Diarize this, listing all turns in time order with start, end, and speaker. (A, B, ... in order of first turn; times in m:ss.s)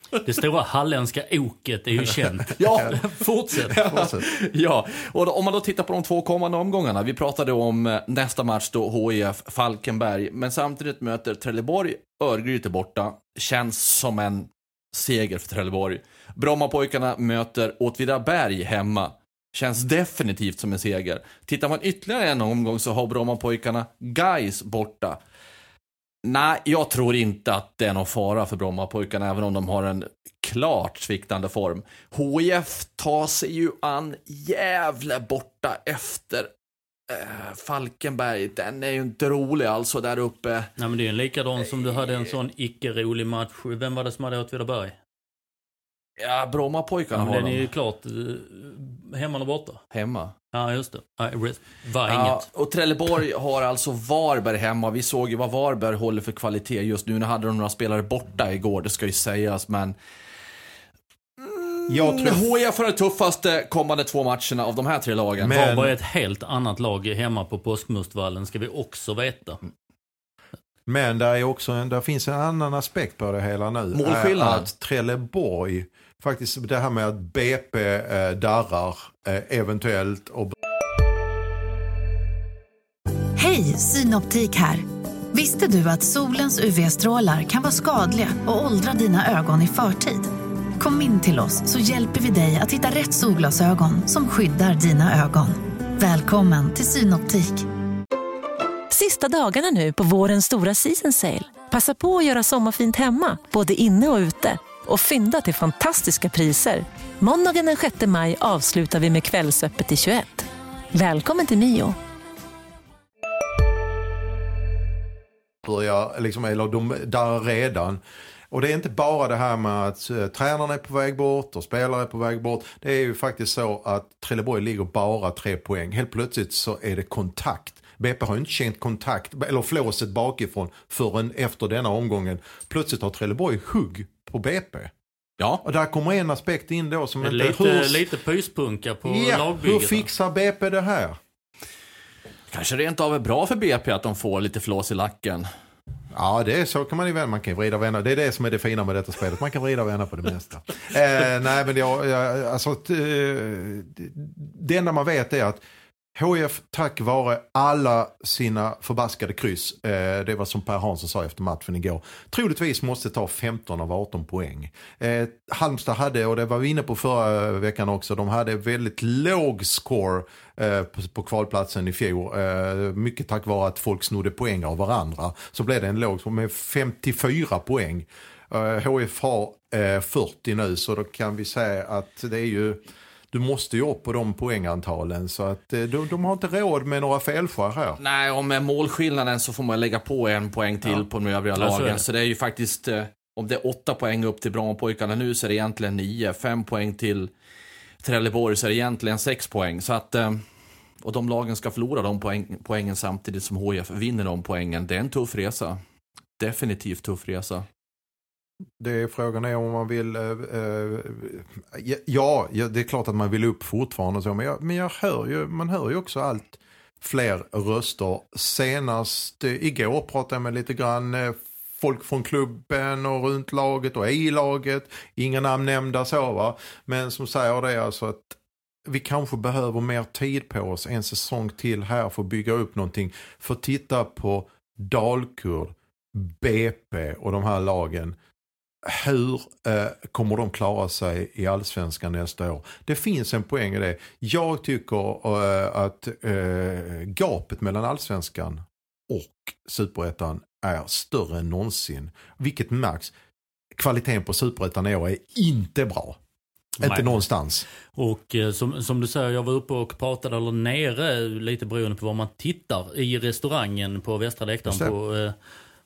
0:00.2-0:03.8 A
0:02.6-0:02.9 B
0:02.6-0:02.9 C
0:03.6-0:25.2 B
0:03.7-0:04.2 C
0:26.2-0:36.5 B
0:37.1-0:40.7 B
0:40.8-0:45.0 A
0:46.2-0:47.7 B
0:47.1-0:49.8 A
0:49.9-0:50.3 B
0:50.5-0:52.5 A
0:52.1-1:00.0 B
1:01.4-1:05.6 B
1:01.9-1:02.4 C
1:05.4-1:06.0 C
1:05.5-1:09.6 A
1:10.9-1:20.5 C
1:13.9-1:14.7 B
1:23.4-1:37.6 D
1:38.9-1:52.0 E
1:55.6-2:14.9 C
2:15.6-2:18.0 C
2:17.2-2:20.1 A
2:19.0-2:21.2 C
2:22.5-2:25.5 B
2:26.1-2:35.6 C
2:36.2-3:08.0 C
3:08.0-3:17.3 B
3:11.6-3:12.0 A
3:18.0-3:20.4 B
3:21.0-3:25.8 B
3:26.4-3:27.6 B
3:28.8-3:58.2 C
3:58.8-4:13.1 C
4:13.7-4:16.2 C
4:16.8-4:17.2 A
4:16.8-4:17.7 C
4:17.9-4:25.3 A
4:24.6-4:24.9 C